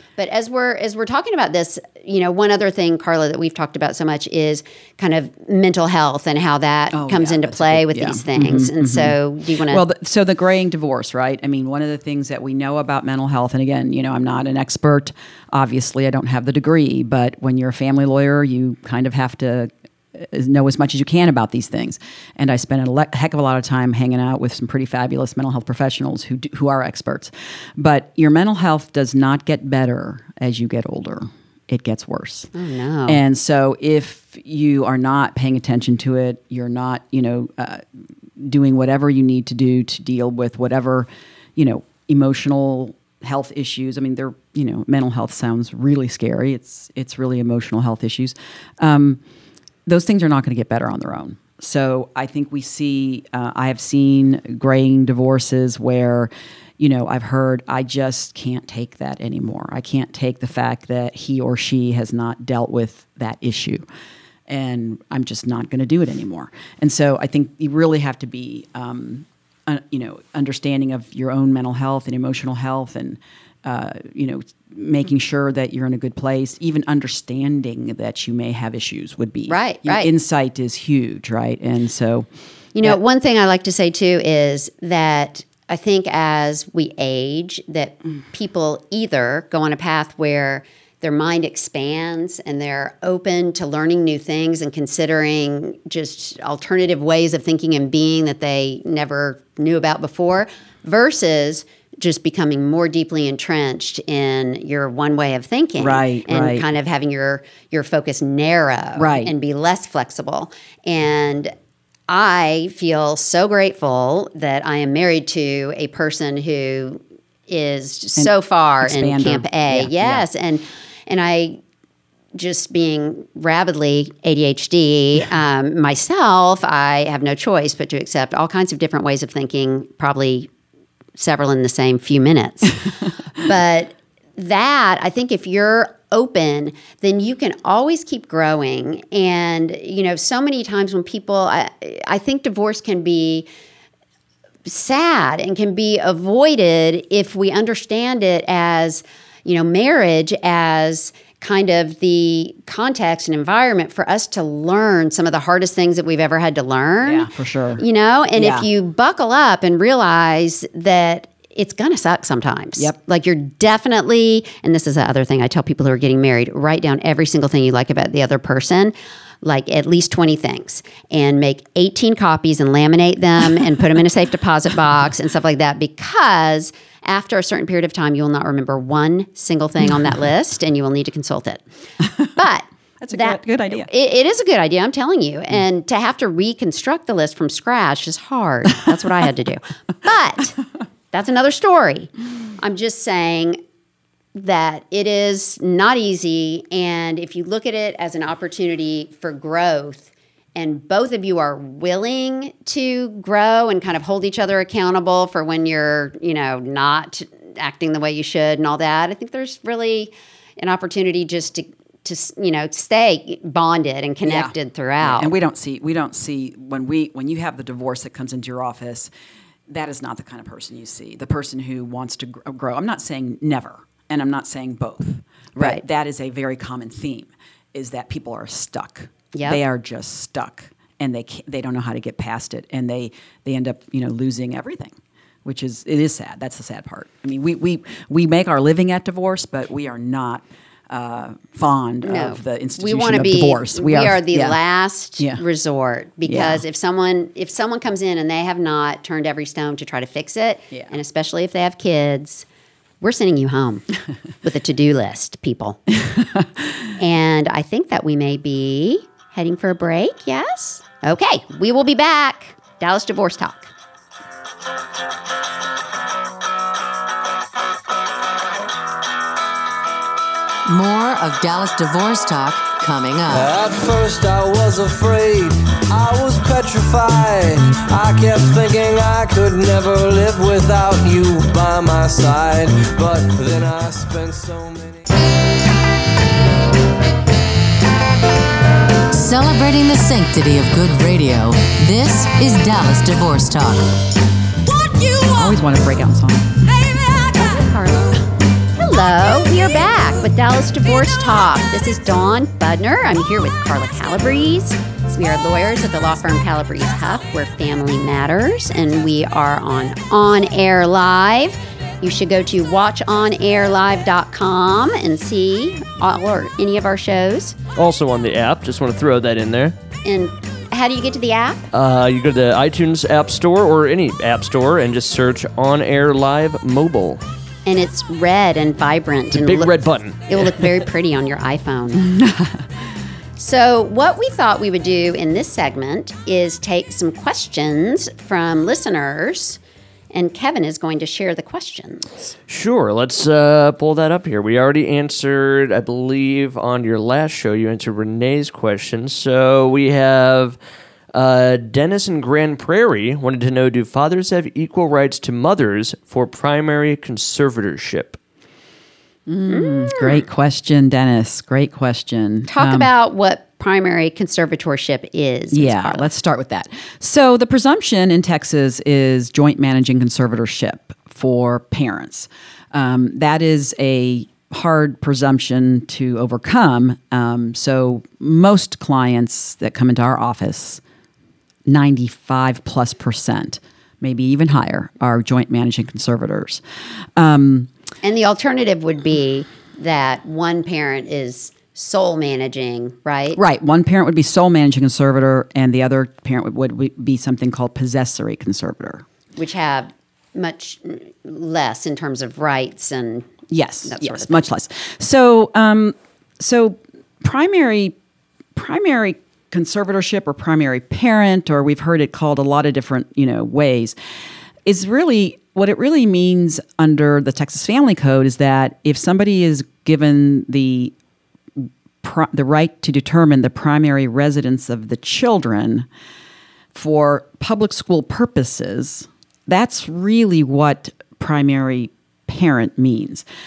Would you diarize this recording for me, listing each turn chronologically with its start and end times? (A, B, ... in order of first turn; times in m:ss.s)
0:00.2-0:09.8 A
0:06.9-0:32.5 B
0:32.5-0:33.2 A
0:33.1-0:37.8 B
0:38.4-0:49.2 B
0:49.8-1:03.8 B
1:04.5-1:22.3 B
1:19.5-1:20.1 A
1:22.7-1:51.5 A
1:45.8-1:46.6 B
1:49.0-1:49.3 B
1:52.1-2:01.6 A
1:58.2-2:00.2 B
2:02.3-2:10.5 A
2:11.1-2:23.5 A
2:24.6-3:01.6 A
2:37.0-2:37.8 B
2:38.4-2:38.7 B
3:02.0-3:02.4 B
3:02.4-3:10.6 A
3:03.0-3:03.9 B
3:11.1-3:13.6 A
3:14.3-3:35.3 A
3:34.2-3:39.1 B
3:39.7-3:54.9 B
3:49.3-3:49.6 A
3:55.4-4:04.6 B
4:02.0-4:12.4 A
4:06.2-4:06.6 B
4:13.0-4:13.8 A
4:14.4-4:15.8 A
4:16.0-4:16.6 B
4:17.0-4:23.7 A
4:30.7-4:33.5 C
4:33.3-4:45.1 D
4:49.1-4:53.9 C
4:54.9-4:55.2 C
4:55.3-4:56.7 B
4:57.3-5:17.6 A
5:17.7-5:19.7 E
5:20.0-5:21.7 A
5:21.7-5:27.2 E
5:27.6-5:32.1 A
5:29.3-5:30.8 E
5:32.1-5:32.6 B
5:33.4-5:39.6 A
5:40.1-5:42.3 A
5:42.5-5:50.6 E
5:51.1-5:58.2 E
5:59.3-6:02.9 B
5:59.5-6:00.2 A
6:02.5-6:06.1 A
6:05.5-6:20.8 B
6:21.6-6:26.6 B
6:27.2-6:27.7 B
6:28.0-6:33.4 A
6:33.3-6:39.0 B
6:39.4-6:44.5 A
6:43.5-6:48.0 B
6:48.5-6:54.0 B
6:54.6-7:00.9 B
7:01.6-7:05.9 B
7:06.7-7:13.2 B